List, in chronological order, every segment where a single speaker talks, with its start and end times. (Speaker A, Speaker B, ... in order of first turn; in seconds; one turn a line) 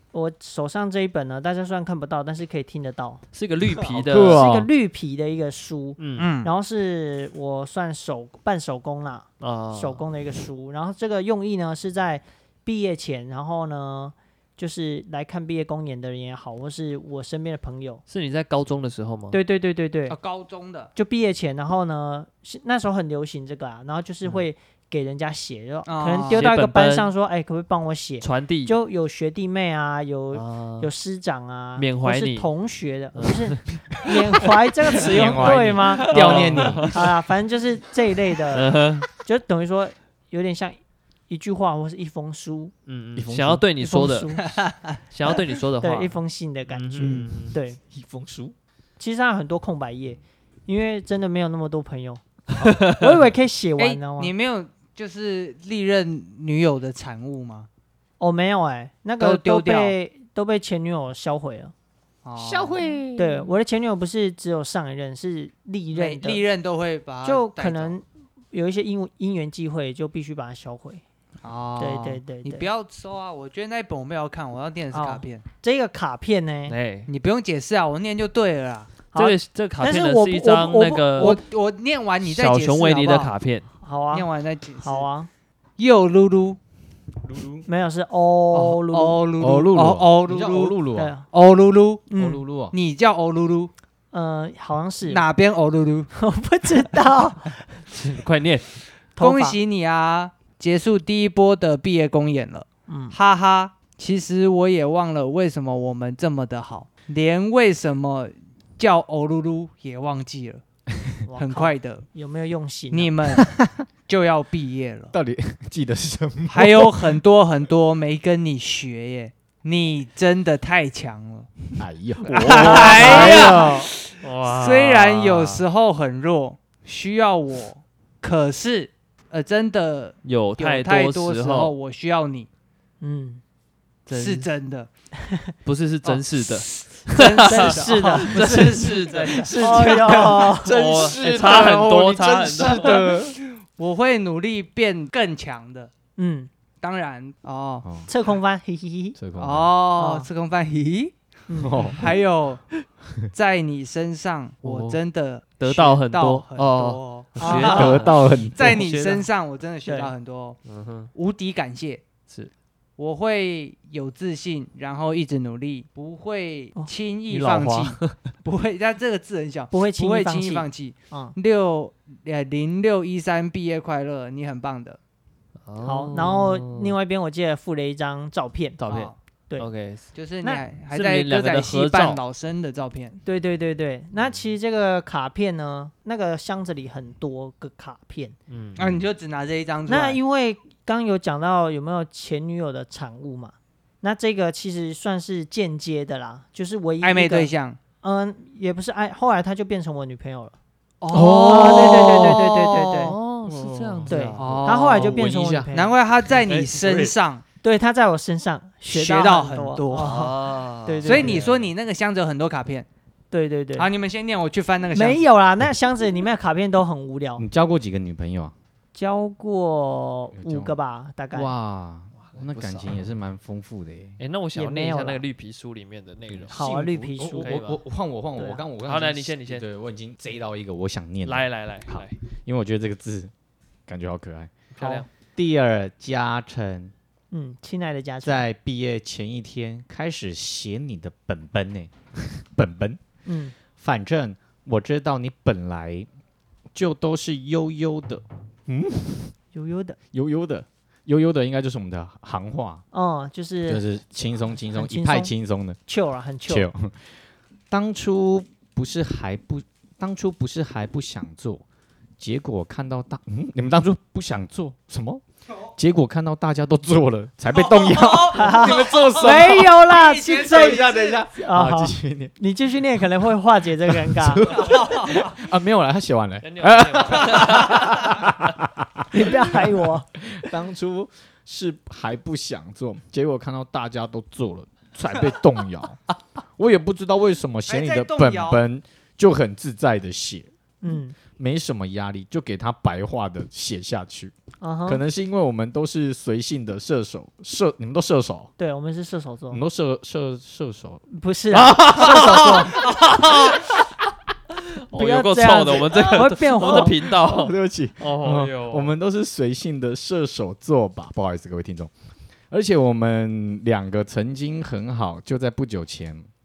Speaker A: 0.1-3.2
Speaker B: 3.3-4.5
Speaker C: 3.9-4.7
Speaker A: 4.1-18.0
Speaker B: 6.0-6.3
Speaker D: 6.2-6.5
Speaker B: 9.4-10.0
Speaker B: 18.1-19.4
Speaker A: 19.3-20.2
Speaker D: 20.1-20.9
Speaker A: 20.9-42.7
Speaker D: 25.9-26.4
Speaker B: 26.3-27.1
Speaker B: 28.2-28.8
Speaker B: 30.3-30.9
Speaker B: 31.8-32.5
Speaker B: 33.1-33.6
Speaker C: 35.0-37.1
Speaker B: 35.0-37.0
Speaker B: 38.5-39.1
Speaker B: 42.9-44.4
Speaker C: 43.1-43.6
Speaker A: 43.8-44.6
Speaker D: 44.4-45.0
Speaker B: 45.1-46.1
Speaker A: 45.8-47.8
Speaker B: 46.7-47.5
Speaker C: 47.9-48.5
Speaker A: 49.0-54.3
Speaker B: 52.6-53.0
Speaker D: 53.8-57.7
Speaker A: 58.2-61.7
Speaker D: 59.2-60.0
Speaker D: 62.2-62.8
Speaker C: 62.4-63.4
Speaker A: 63.1-66.4
Speaker D: 65.9-68.0
Speaker A: 67.2-71.0
Speaker D: 71.4-75.4
Speaker A: 71.8-72.7
Speaker A: 74.9-76.7
Speaker B: 76.7-77.1
Speaker D: 77.1-78.9
Speaker A: 79.1-81.4
Speaker B: 79.1-81.4
Speaker D: 81.2-83.3
Speaker B: 82.2-83.7
Speaker A: 83.8-84.3
Speaker D: 84.1-85.1
Speaker A: 84.8-85.3
Speaker D: 85.8-86.6
Speaker C: 87.2-87.7
Speaker A: 87.7-89.2
Speaker D: 88.5-90.8
Speaker C: 89.4-91.1
Speaker A: 91.0-91.3
Speaker D: 91.3-92.1
Speaker A: 92.1-92.4
Speaker C: 92.2-92.7
Speaker D: 92.7-93.7
Speaker A: 94.1-95.3
Speaker D: 95.0-96.1
Speaker A: 96.1-97.8
Speaker B: 97.9-98.7
Speaker A: 99.2-99.5
Speaker D: 99.2-110.6
Speaker A: 102.9-103.1
Speaker A: 111.2-113.4
Speaker D: 111.4-112.1
Speaker D: 112.9-115.1
Speaker C: 115.1-117.2
Speaker D: 116.5-121.5
Speaker C: 121.8-123.7
Speaker D: 122.2-132.5
Speaker A: 122.4-123.9
Speaker B: 122.9-123.5
Speaker B: 124.2-125.6
Speaker B: 130.2-131.7
Speaker A: 133.0-133.4
Speaker B: 134.1-134.5
Speaker D: 134.1-134.9
Speaker B: 135.6-142.9
Speaker D: 136.0-140.2
Speaker A: 137.5-138.9
Speaker C: 139.4-143.4
Speaker A: 139.5-140.8
Speaker D: 142.6-145.9
Speaker A: 146.2-146.5
Speaker D: 146.8-147.8
Speaker C: 147.8-148.1
Speaker A: 148.1-149.2
Speaker C: 149.2-149.7
Speaker D: 149.4-151.1
Speaker A: 150.0-150.3
Speaker A: 151.5-151.9
Speaker C: 151.6-152.1
Speaker D: 151.8-152.6
Speaker D: 153.3-157.9
Speaker B: 154.6-155.0
Speaker B: 155.6-159.2
Speaker C: 157.4-158.8
Speaker A: 157.4-158.0
Speaker D: 158.5-160.6
Speaker A: 159.8-160.1
Speaker B: 160.7-161.1
Speaker D: 161.1-162.0
Speaker D: 163.0-175.0
Speaker B: 167.3-168.2
Speaker A: 169.7-171.3
Speaker B: 175.7-176.9
Speaker A: 175.8-178.8
Speaker B: 178.8-180.1
Speaker D: 178.9-179.1
Speaker D: 180.1-183.2
Speaker B: 180.9-182.2
Speaker A: 183.2-188.3
Speaker B: 188.5-188.8
Speaker D: 188.8-190.2
Speaker A: 189.9-197.5
Speaker D: 197.0-197.8
Speaker A: 198.0-200.5
Speaker D: 201.0-202.6
Speaker C: 201.1-202.4
Speaker A: 201.4-203.2
Speaker B: 201.7-204.7
Speaker C: 203.4-205.7
Speaker A: 204.1-205.9
Speaker D: 204.4-205.2
Speaker D: 205.7-207.4
Speaker C: 206.3-207.1
Speaker A: 207.6-211.5
Speaker D: 208.9-210.3
Speaker B: 209.9-211.3
Speaker D: 211.0-212.9
Speaker C: 211.1-211.7
Speaker A: 213.3-213.9
Speaker D: 213.8-215.2
Speaker A: 214.9-217.5
Speaker C: 217.4-218.5
Speaker A: 218.9-221.5
Speaker C: 220.3-220.8
Speaker C: 221.3-224.2
Speaker B: 222.2-223.0
Speaker B: 224.2-227.8
Speaker A: 224.5-225.2
Speaker C: 226.3-233.3
Speaker A: 226.5-227.6
Speaker A: 228.4-228.6
Speaker B: 228.8-229.6
Speaker B: 231.2-232.2
Speaker C: 233.9-234.6
Speaker B: 234.7-235.1
Speaker A: 234.8-235.1
Speaker C: 235.3-236.9
Speaker A: 237.3-238.4
Speaker C: 238.2-243.0
Speaker A: 243.2-243.5
Speaker C: 243.7-246.1
Speaker C: 246.7-249.3
Speaker A: 249.5-250.0
Speaker C: 250.1-252.8
Speaker A: 252.9-255.3
Speaker C: 253.6-255.8
Speaker A: 255.9-256.7
Speaker C: 256.4-261.6
Speaker C: 262.2-265.2
Speaker C: 265.7-269.8
Speaker D: 267.5-271.2
Speaker A: 268.3-274.9
Speaker C: 270.4-272.3
Speaker C: 273.8-286.0
Speaker D: 274.6-275.1
Speaker B: 276.4-278.3
Speaker A: 279.1-280.1
Speaker C: 286.6-290.5
Speaker D: 287.7-288.6
Speaker A: 290.8-291.1
Speaker C: 291.4-294.3
Speaker A: 294.6-295.0
Speaker C: 294.9-298.5
Speaker A: 298.6-299.6
Speaker C: 299.5-303.7
Speaker A: 301.1-302.8
Speaker B: 302.0-302.6
Speaker B: 304.9-308.9
Speaker A: 304.9-306.9
Speaker C: 306.2-311.9
Speaker C: 312.5-316.3